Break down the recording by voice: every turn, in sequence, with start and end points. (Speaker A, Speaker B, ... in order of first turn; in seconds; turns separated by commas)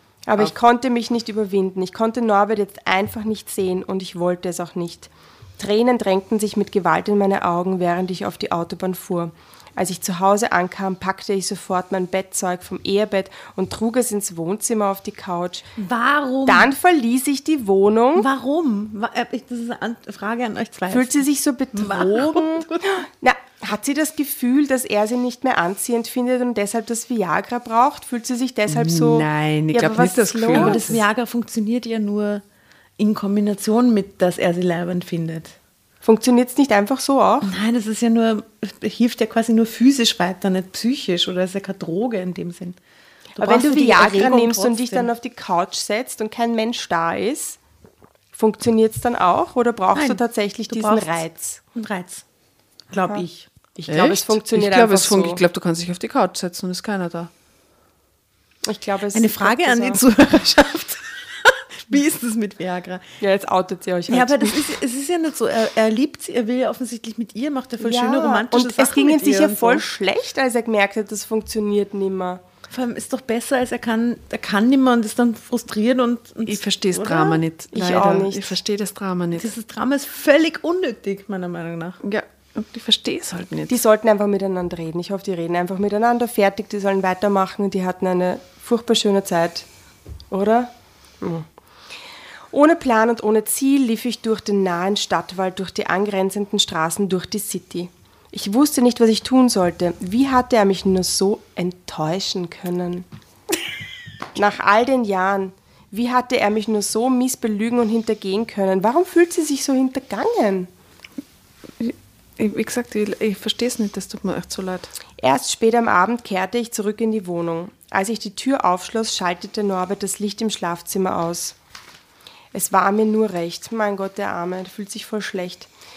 Speaker A: 0.3-15.7, Speaker B: 15.8-16.7, Speaker A: 16.4-18.3, Speaker B: 18.1-22.8, Speaker A: 20.9-31.0, Speaker C: 28.7-31.0, Speaker B: 30.5-32.4, Speaker B: 33.0-35.5, Speaker A: 36.0-37.5, Speaker B: 37.4-42.8, Speaker B: 43.4-45.1, Speaker A: 43.4-47.6, Speaker A: 48.3-51.6, Speaker B: 49.9-51.2, Speaker B: 51.7-52.2, Speaker B: 52.9-53.5, Speaker A: 53.8-55.4, Speaker C: 53.9-57.3, Speaker A: 58.6-60.0, Speaker B: 59.1-63.0, Speaker A: 63.2-64.8, Speaker B: 64.1-69.8, Speaker A: 67.8-72.4, Speaker B: 72.7-77.4, Speaker C: 76.5-79.5, Speaker A: 77.7-78.6, Speaker B: 79.3-82.0, Speaker C: 82.0-83.8, Speaker A: 83.7-89.7, Speaker A: 90.3-91.5, Speaker A: 92.5-103.1, Speaker A: 104.3-110.7, Speaker C: 111.8-114.9, Speaker A: 115.2-121.6, Speaker A: 122.5-125.7